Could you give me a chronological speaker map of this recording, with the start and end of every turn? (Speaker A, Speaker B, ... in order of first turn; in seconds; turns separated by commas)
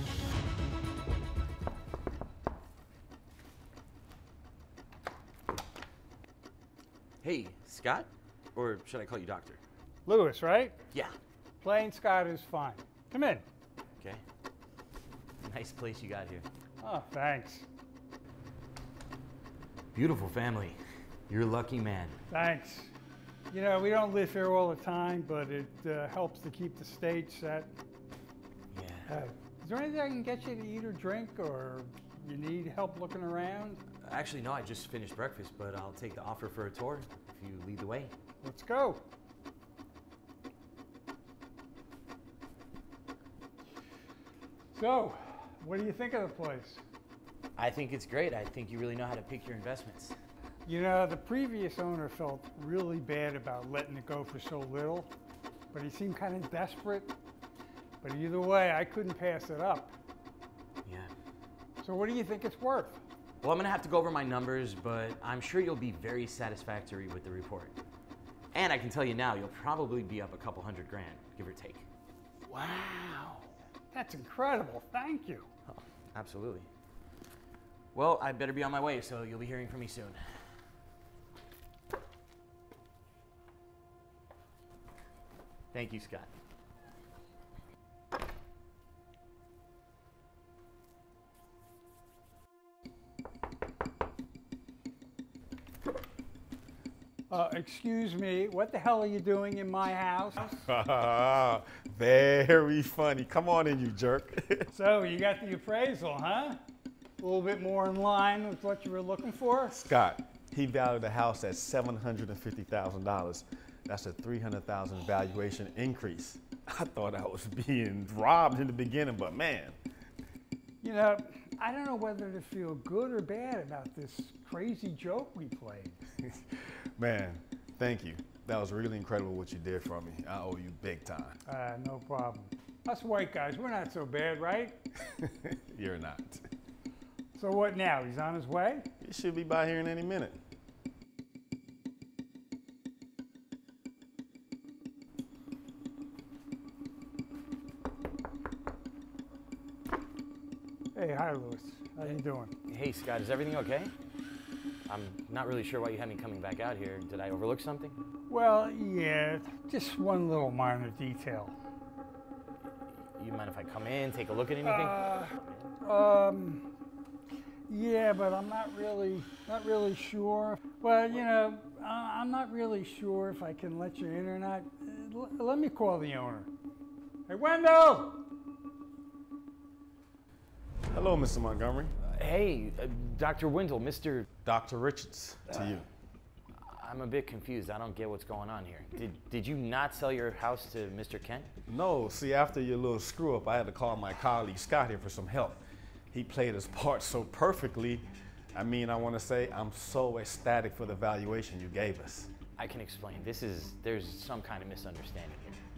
Speaker A: 7.2-9.6, Speaker B: 10.1-10.8, Speaker B: 11.6-13.4, Speaker A: 15.4-16.4, Speaker B: 16.8-17.6, Speaker A: 19.9-22.2, Speaker B: 22.3-22.9, Speaker B: 23.5-27.7, Speaker A: 28.7-29.1, Speaker B: 29.1-33.8, Speaker A: 34.0-38.1, Speaker B: 38.4-39.0, Speaker B: 44.7-46.8, Speaker A: 47.6-50.1, Speaker B: 50.6-55.1, Speaker B: 55.7-57.1, Speaker B: 58.0-59.9, Speaker A: 60.9-61.1, Speaker B: 61.8-63.0, Speaker A: 63.4-67.8, Speaker A: 68.5-71.9, Speaker B: 72.5-75.5, Speaker A: 75.7-76.7, Speaker A: 77.9-80.5, Speaker A: 85.7-86.3, Speaker B: 97.3-100.6, Speaker C: 100.6-104.7, Speaker B: 104.7-106.6, Speaker B: 107.2-109.8, Speaker C: 109.7-119.8, Speaker B: 120.8-126.0, Speaker C: 126.2-131.4, Speaker B: 131.5-134.8, Speaker C: 135.1-136.4, Speaker B: 137.4-138.9, Speaker C: 139.0-140.4, Speaker B: 150.9-152.5, Speaker A: 152.0-153.9, Speaker A: 154.9-158.0, Speaker B: 158.3-161.6, Speaker A: 163.1-165.7, Speaker B: 164.6-166.6, Speaker B: 167.7-176.5, Speaker B: 177.3-178.2, Speaker C: 180.9-181.9, Speaker A: 182.0-184.3, Speaker C: 184.4-185.9, Speaker A: 186.6-191.5, Speaker C: 191.7-202.3, Speaker A: 202.6-205.6